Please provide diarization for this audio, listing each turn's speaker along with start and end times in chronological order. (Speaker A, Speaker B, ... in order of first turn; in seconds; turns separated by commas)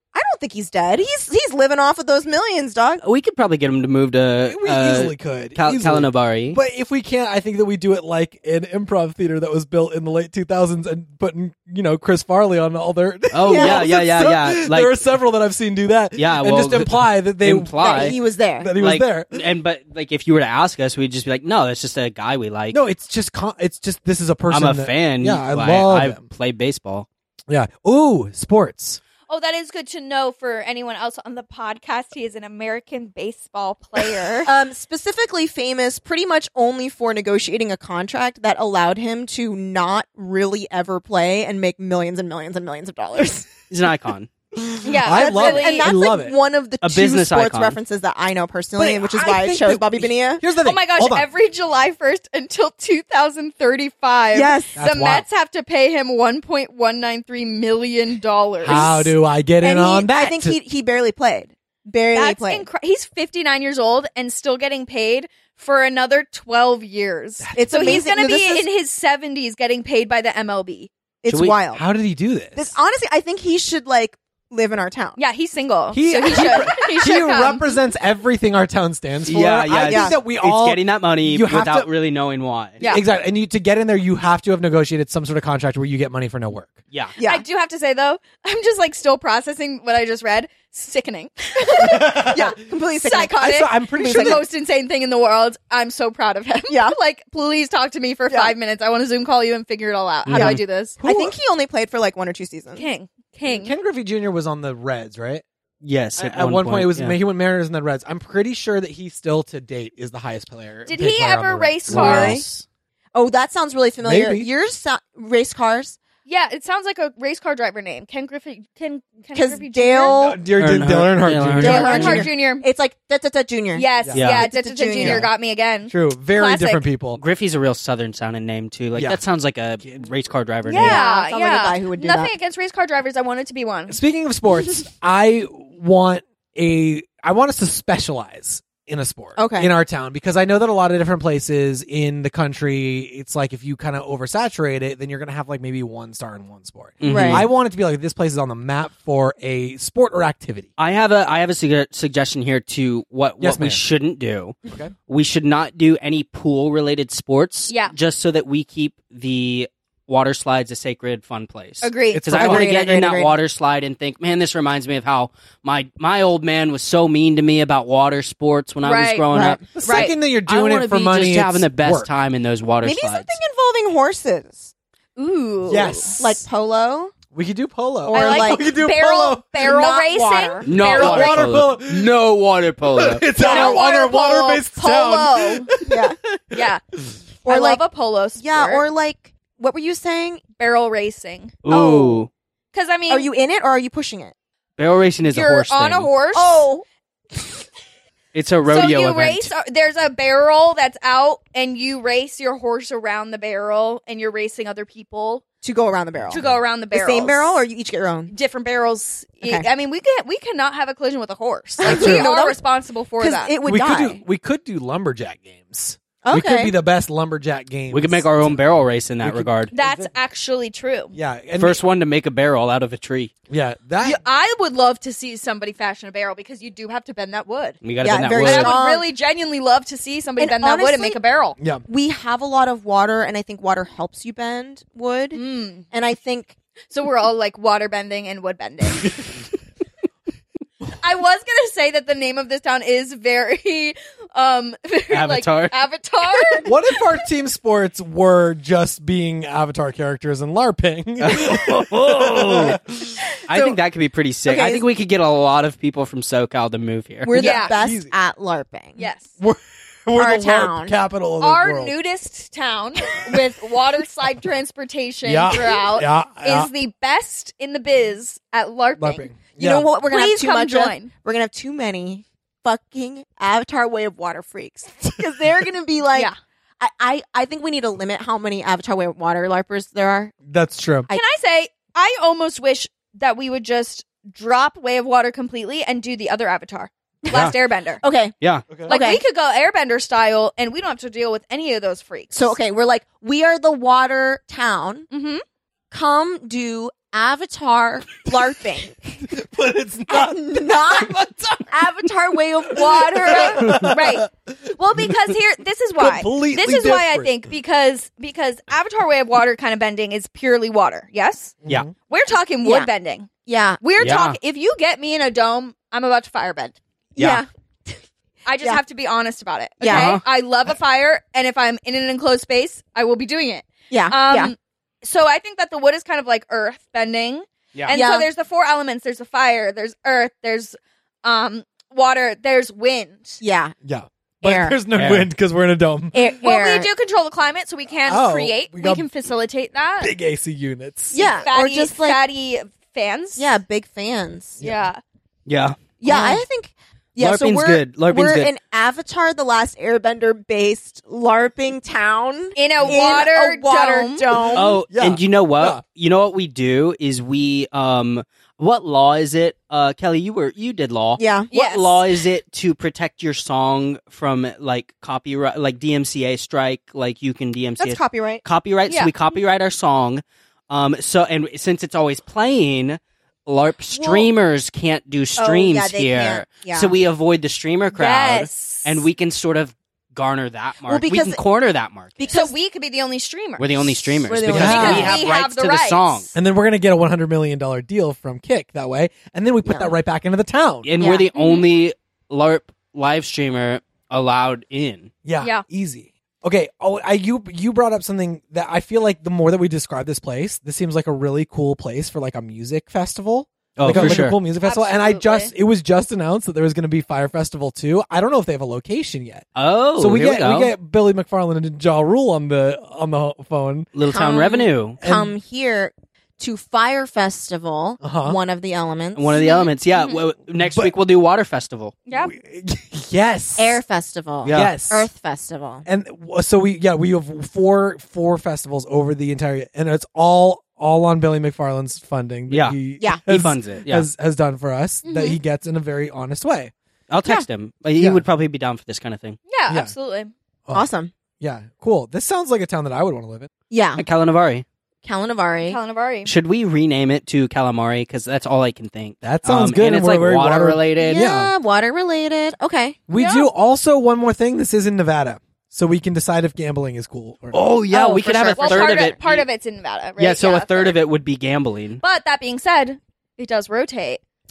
Speaker A: 0.1-3.0, Speaker B: 3.0-6.6, Speaker C: 4.5-17.8, Speaker B: 13.3-14.9, Speaker A: 13.4-13.9, Speaker B: 16.1-18.2, Speaker A: 17.8-18.7, Speaker C: 18.6-19.4, Speaker B: 18.8-22.8, Speaker C: 22.7-26.2, Speaker B: 24.5-27.1, Speaker C: 27.5-29.0, Speaker D: 29.3-34.5, Speaker A: 34.4-43.5, Speaker B: 43.7-44.3, Speaker C: 44.5-46.4, Speaker D: 44.8-45.9, Speaker A: 45.1-50.4, Speaker B: 46.8-47.8, Speaker C: 48.8-51.3, Speaker D: 50.6-59.1, Speaker A: 54.3-54.7, Speaker C: 54.8-55.2, Speaker C: 58.6-60.6, Speaker A: 58.7-59.0, Speaker A: 59.6-62.7, Speaker D: 62.1-70.9, Speaker C: 67.4-68.0, Speaker A: 67.5-68.7, Speaker A: 71.2-71.8, Speaker B: 71.3-71.5, Speaker C: 71.7-72.7, Speaker A: 72.5-75.2, Speaker D: 75.2-77.8, Speaker C: 75.9-81.9, Speaker A: 76.3-76.8, Speaker B: 79.3-82.8, Speaker A: 79.9-80.2, Speaker C: 82.8-86.8, Speaker B: 86.9-87.2, Speaker A: 87.2-87.4, Speaker D: 87.2-92.4, Speaker A: 91.8-94.4, Speaker C: 91.8-92.5, Speaker D: 93.0-101.0, Speaker C: 93.4-94.5, Speaker A: 96.7-97.0, Speaker A: 98.3-98.5, Speaker B: 100.2-100.6, Speaker C: 100.3-101.3, Speaker A: 101.0-102.9, Speaker D: 102.7-103.7, Speaker C: 103.5-105.4, Speaker B: 105.8-107.1, Speaker C: 106.2-112.3, Speaker D: 110.9-112.4, Speaker B: 111.9-112.6, Speaker A: 111.9-112.4, Speaker A: 113.1-116.0, Speaker C: 114.0-114.5, Speaker D: 116.2-120.2, Speaker A: 119.3-120.4, Speaker C: 120.1-122.3, Speaker B: 120.6-122.2, Speaker A: 121.6-125.3, Speaker D: 121.6-122.6, Speaker D: 123.7-126.8, Speaker B: 124.1-124.5, Speaker C: 125.0-125.2, Speaker C: 125.9-127.2, Speaker B: 127.2-131.0, Speaker C: 128.9-129.2, Speaker C: 129.8-130.1, Speaker D: 130.7-134.0, Speaker A: 130.8-132.3, Speaker C: 133.9-150.7, Speaker A: 139.3-139.7, Speaker B: 147.0-147.5, Speaker A: 147.0-147.5, Speaker B: 150.8-173.4, Speaker C: 153.4-153.8, Speaker D: 157.7-157.9, Speaker D: 161.8-162.3, Speaker C: 162.1-162.7, Speaker A: 162.3-163.3, Speaker D: 168.8-169.3, Speaker A: 169.3-169.7, Speaker C: 169.7-172.1, Speaker D: 169.8-170.1, Speaker A: 172.8-174.7, Speaker D: 175.2-176.2, Speaker C: 175.7-176.4, Speaker A: 176.2-177.1, Speaker C: 177.3-179.5, Speaker A: 178.1-178.6, Speaker D: 178.1-181.6, Speaker A: 179.6-180.7, Speaker B: 180.6-183.3, Speaker C: 180.8-182.1, Speaker C: 182.9-187.2, Speaker D: 183.4-185.7, Speaker A: 183.4-183.8, Speaker A: 185.8-186.2, Speaker D: 186.5-186.8, Speaker A: 187.4-187.8, Speaker D: 187.4-188.8, Speaker A: 188.4-190.4, Speaker D: 190.6-192.2, Speaker B: 191.6-192.3, Speaker A: 191.7-192.2, Speaker D: 192.7-193.3, Speaker A: 193.1-194.3, Speaker B: 194.8-196.1, Speaker D: 195.2-196.7, Speaker A: 196.3-196.8, Speaker B: 198.3-199.5, Speaker D: 198.7-205.4, Speaker A: 205.6-208.3, Speaker C: 206.3-206.6, Speaker D: 206.3-207.6, Speaker D: 208.3-213.5, Speaker A: 209.4-209.7, Speaker A: 211.8-212.6, Speaker C: 211.8-212.2, Speaker A: 213.2-214.2, Speaker C: 213.6-218.6, Speaker A: 216.2-216.7, Speaker B: 217.9-219.7, Speaker C: 219.2-220.1, Speaker D: 219.7-221.1, Speaker C: 221.1-221.8, Speaker B: 221.6-223.3, Speaker C: 223.5-224.2, Speaker D: 224.0-227.8, Speaker B: 227.8-228.8, Speaker A: 228.0-229.1, Speaker D: 228.4-231.6, Speaker A: 230.4-231.2, Speaker C: 231.6-231.8, Speaker A: 231.8-236.6, Speaker D: 235.3-235.8, Speaker D: 236.9-239.3, Speaker D: 241.0-246.7, Speaker B: 245.1-245.8, Speaker C: 246.6-253.2, Speaker B: 251.2-252.8, Speaker B: 253.5-257.5, Speaker A: 254.4-254.8, Speaker A: 257.2-259.0, Speaker D: 257.3-257.8, Speaker C: 257.5-258.1, Speaker D: 259.0-259.3, Speaker C: 259.4-261.9, Speaker A: 260.1-260.9, Speaker D: 261.4-269.3, Speaker C: 265.2-266.7, Speaker C: 269.0-269.9, Speaker A: 269.6-280.3, Speaker D: 270.1-271.1, Speaker C: 280.5-281.1, Speaker D: 281.1-288.0, Speaker B: 287.3-287.5, Speaker A: 288.0-288.3, Speaker B: 288.4-288.6, Speaker C: 288.7-288.9, Speaker A: 288.8-289.2, Speaker D: 288.9-292.6, Speaker A: 292.3-295.1, Speaker D: 295.1-295.4, Speaker A: 295.9-299.3, Speaker C: 299.2-301.7, Speaker A: 300.1-303.6, Speaker D: 302.7-313.3, Speaker C: 303.1-304.5, Speaker C: 306.0-307.3, Speaker C: 311.6-311.9, Speaker A: 312.6-312.9, Speaker A: 313.4-313.8, Speaker D: 313.8-316.8, Speaker B: 314.0-314.4, Speaker A: 317.1-317.4, Speaker B: 317.2-317.4, Speaker D: 318.4-333.4, Speaker A: 319.8-320.2, Speaker B: 319.8-320.2, Speaker A: 323.9-324.5, Speaker A: 327.9-328.3, Speaker A: 333.4-333.7, Speaker C: 333.8-336.2, Speaker A: 334.4-334.8, Speaker B: 334.9-335.3, Speaker A: 336.1-336.9, Speaker D: 336.4-340.1, Speaker C: 338.0-339.1, Speaker C: 340.0-341.2, Speaker A: 341.1-342.2, Speaker D: 341.1-343.5, Speaker A: 343.4-344.6, Speaker C: 344.6-344.9, Speaker D: 344.6-345.0, Speaker B: 345.4-345.8, Speaker A: 346.0-354.8, Speaker B: 347.2-348.5, Speaker D: 352.5-354.4, Speaker B: 354.5-382.3, Speaker C: 354.9-355.8, Speaker A: 361.2-361.5, Speaker D: 361.5-362.1, Speaker A: 367.8-368.4, Speaker D: 368.9-369.1, Speaker A: 373.9-374.3, Speaker A: 375.4-376.9, Speaker D: 377.9-379.1, Speaker A: 380.9-381.4, Speaker A: 382.2-382.5, Speaker D: 382.3-386.3, Speaker B: 383.6-386.3, Speaker A: 384.2-385.3, Speaker C: 384.5-385.2, Speaker C: 386.3-390.9, Speaker A: 389.6-389.9, Speaker B: 390.8-395.1, Speaker A: 391.0-391.3, Speaker D: 391.3-391.7, Speaker C: 395.2-409.4, Speaker B: 403.8-404.4, Speaker A: 403.9-404.1, Speaker D: 403.9-405.5, Speaker B: 409.6-410.7, Speaker C: 410.0-413.9, Speaker B: 413.9-415.0, Speaker A: 414.1-419.4, Speaker C: 415.0-415.3, Speaker C: 418.0-418.4, Speaker B: 419.1-422.0, Speaker D: 419.3-420.2, Speaker C: 420.6-420.9, Speaker D: 422.1-422.3, Speaker C: 422.1-423.8, Speaker A: 423.6-425.8, Speaker B: 424.4-424.7, Speaker C: 424.5-425.1, Speaker C: 425.8-436.7, Speaker B: 432.5-434.1, Speaker D: 435.0-435.4, Speaker B: 437.1-439.4, Speaker C: 438.0-438.2, Speaker D: 439.5-440.3, Speaker A: 440.7-441.1, Speaker C: 441.4-443.5, Speaker A: 443.7-444.0, Speaker B: 443.9-444.6, Speaker A: 445.0-445.8, Speaker D: 445.6-446.3, Speaker B: 446.2-451.2, Speaker C: 449.2-451.5, Speaker A: 451.0-453.0, Speaker C: 453.1-457.6, Speaker D: 453.1-453.5, Speaker B: 457.5-459.4, Speaker A: 457.9-459.2, Speaker D: 458.2-461.0, Speaker B: 460.2-462.0, Speaker D: 462.0-464.2